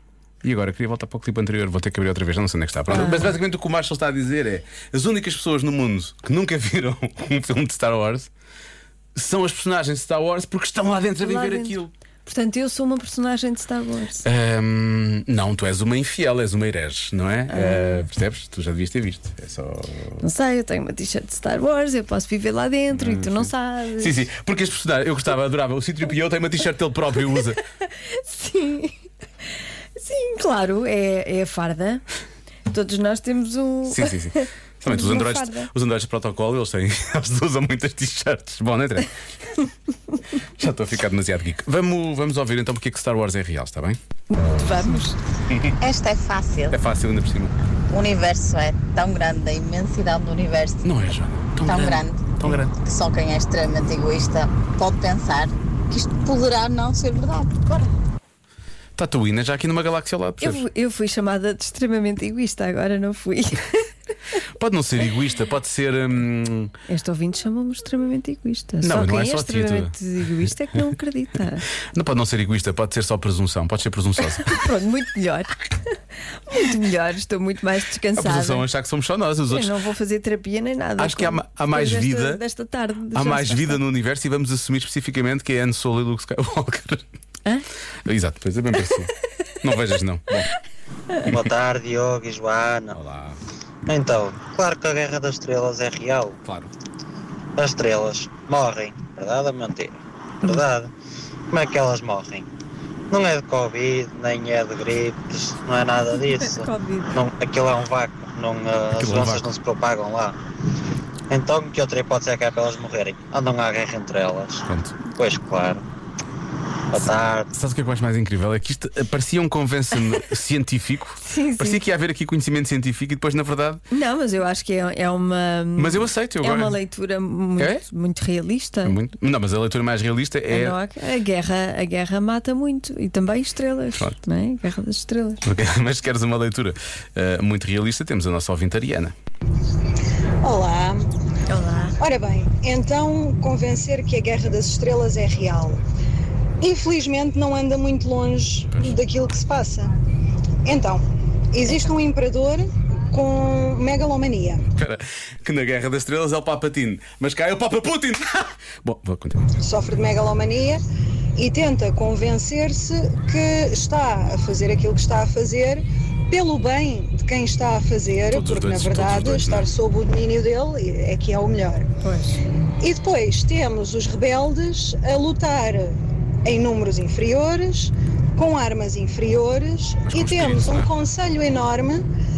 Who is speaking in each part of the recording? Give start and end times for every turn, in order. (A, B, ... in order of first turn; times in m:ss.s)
0:00.4-0:08.3 A
0:02.9-0:03.3 B
0:09.1-0:11.9 A
0:11.2-0:14.2 B
0:14.2-0:20.2 A
0:17.5-0:18.1 B
0:20.2-0:24.2 B
0:22.9-0:27.6 A
0:28.0-0:29.0 B
0:30.0-0:32.0 B
0:32.7-0:35.7 B
0:33.9-0:39.1 A
0:40.6-0:44.0 A
0:44.3-0:45.2 B
0:45.8-0:46.7 C
0:46.7-0:47.5 A
0:47.9-0:50.8 C
0:50.8-0:52.8 A
0:51.6-0:57.9 C
0:59.0-1:00.6 A
1:00.4-1:03.8 B
1:04.6-1:06.7 A
1:06.9-1:11.6 B
1:08.8-1:09.9 A
1:11.9-1:14.7 A
1:14.4-1:15.6 B
1:16.5-1:18.6 B
1:18.2-1:19.7 A
1:19.5-1:23.8 B
1:21.0-1:22.4 A
1:23.1-1:27.0 A
1:28.0-1:30.5 A
1:31.3-1:33.0 D
1:32.9-1:33.4 A
1:33.9-1:36.4 D
1:36.4-1:36.7 A
1:37.6-1:40.9 D
1:41.5-1:42.5 D
1:43.1-1:50.4 D
1:46.1-1:47.2 B
1:48.9-1:49.5 A
1:51.3-1:55.8 D
1:54.7-1:55.0 A
1:56.9-1:57.5 D
1:57.5-2:03.8 A
2:01.2-2:01.8 B
2:03.9-2:09.0 B
2:05.8-2:06.8 A
2:07.6-2:07.8 A
2:08.8-2:10.8 A
2:10.5-2:15.4 B
2:15.4-2:19.1 A
2:20.4-2:21.0 E
2:21.5-2:21.9 B
2:22.0-2:25.8 E
2:26.6-2:29.9 E
2:30.6-2:34.6 E
2:34.8-2:39.5 A
2:39.6-2:40.8 E
2:41.4-2:51.9 E
2:48.3-2:49.7 A
2:52.0-2:52.4 B
2:52.8-2:55.9 E
2:56.4-3:02.0 E
3:00.0-3:00.9 A